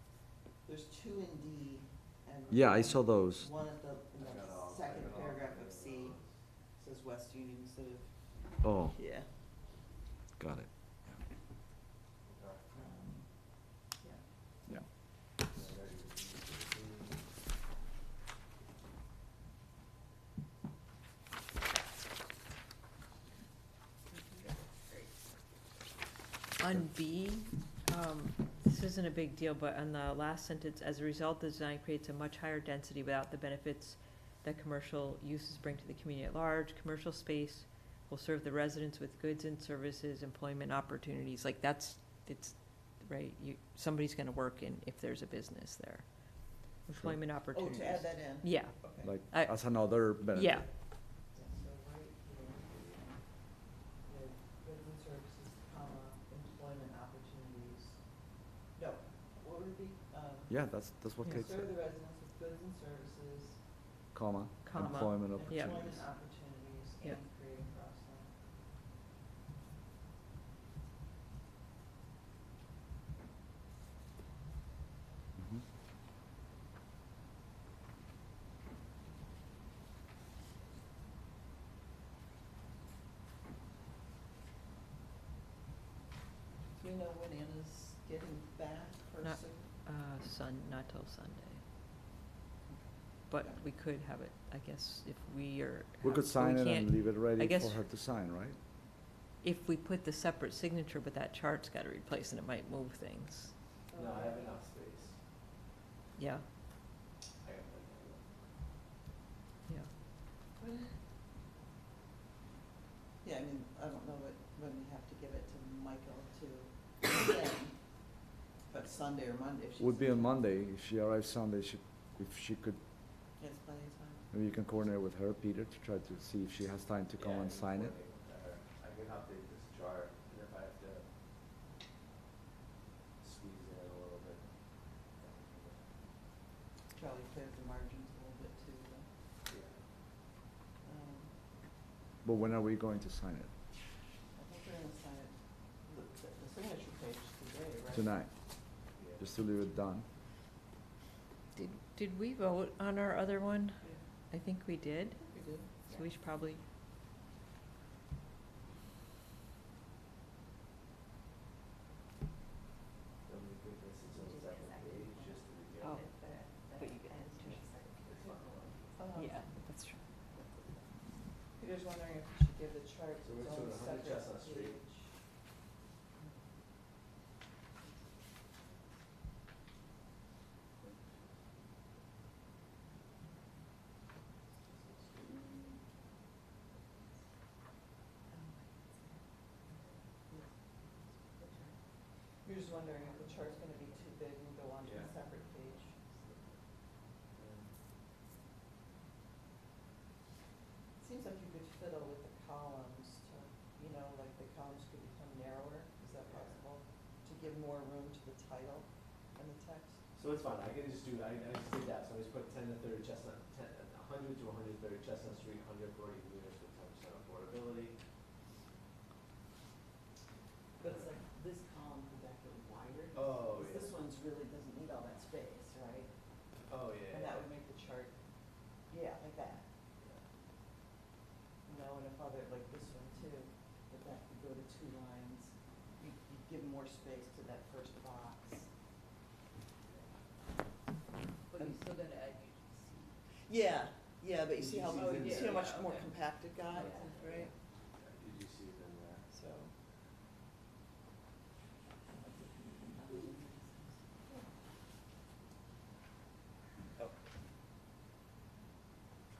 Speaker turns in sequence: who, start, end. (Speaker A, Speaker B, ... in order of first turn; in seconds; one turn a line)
Speaker A: 0.6-6.2
Speaker B: 2.5-3.5
Speaker C: 4.2-6.3
Speaker A: 6.8-8.1
Speaker B: 8.6-9.0
Speaker A: 8.8-9.3
Speaker B: 10.4-10.7
Speaker C: 12.3-12.6
Speaker A: 12.7-13.3
Speaker C: 15.5-17.2
Speaker D: 24.4-25.0
Speaker E: 26.6-50.6
Speaker A: 47.5-49.1
Speaker B: 49.0-50.6
Speaker A: 51.3-53.2
Speaker A: 54.0-58.0
Speaker A: 58.7-60.6
Speaker B: 60.5-61.7
Speaker A: 61.2-63.6
Speaker B: 64.1-66.0
Speaker E: 64.6-65.8
Speaker A: 64.8-68.3
Speaker A: 86.8-89.7
Speaker E: 89.2-91.6
Speaker E: 93.3-97.9
Speaker B: 96.0-98.5
Speaker E: 99.4-103.5
Speaker C: 103.9-105.2
Speaker E: 106.2-106.5
Speaker C: 107.4-108.3
Speaker A: 113.2-117.8
Speaker A: 118.7-120.4
Speaker B: 119.8-122.8
Speaker A: 123.4-124.3
Speaker B: 124.3-127.9
Speaker C: 127.2-131.0
Speaker C: 133.2-134.4
Speaker C: 135.2-135.8
Speaker A: 136.9-139.1
Speaker C: 139.5-139.8
Speaker A: 140.8-141.3
Speaker B: 142.2-143.5
Speaker A: 144.3-148.1
Speaker B: 147.9-148.3
Speaker B: 149.2-150.1
Speaker E: 151.5-156.6
Speaker A: 155.3-155.7
Speaker C: 163.2-166.1
Speaker D: 164.1-168.8
Speaker E: 165.8-167.7
Speaker C: 168.0-168.8
Speaker A: 169.0-169.4
Speaker E: 169.1-170.0
Speaker A: 171.6-175.1
Speaker C: 173.2-174.8
Speaker A: 185.0-185.6
Speaker A: 192.4-196.0
Speaker C: 194.8-195.1
Speaker C: 197.3-197.7
Speaker A: 201.0-210.0
Speaker C: 206.2-206.6
Speaker C: 210.2-218.0
Speaker A: 220.8-226.1
Speaker C: 223.1-224.0
Speaker C: 226.7-227.4
Speaker A: 227.1-228.1
Speaker A: 228.9-229.7
Speaker C: 230.0-230.2
Speaker A: 231.7-238.7
Speaker D: 241.5-243.1
Speaker A: 243.5-247.4
Speaker C: 244.6-245.6
Speaker D: 244.9-245.8
Speaker D: 246.7-247.5
Speaker C: 246.7-247.1
Speaker C: 247.9-249.2
Speaker A: 249.3-249.7
Speaker A: 252.1-254.0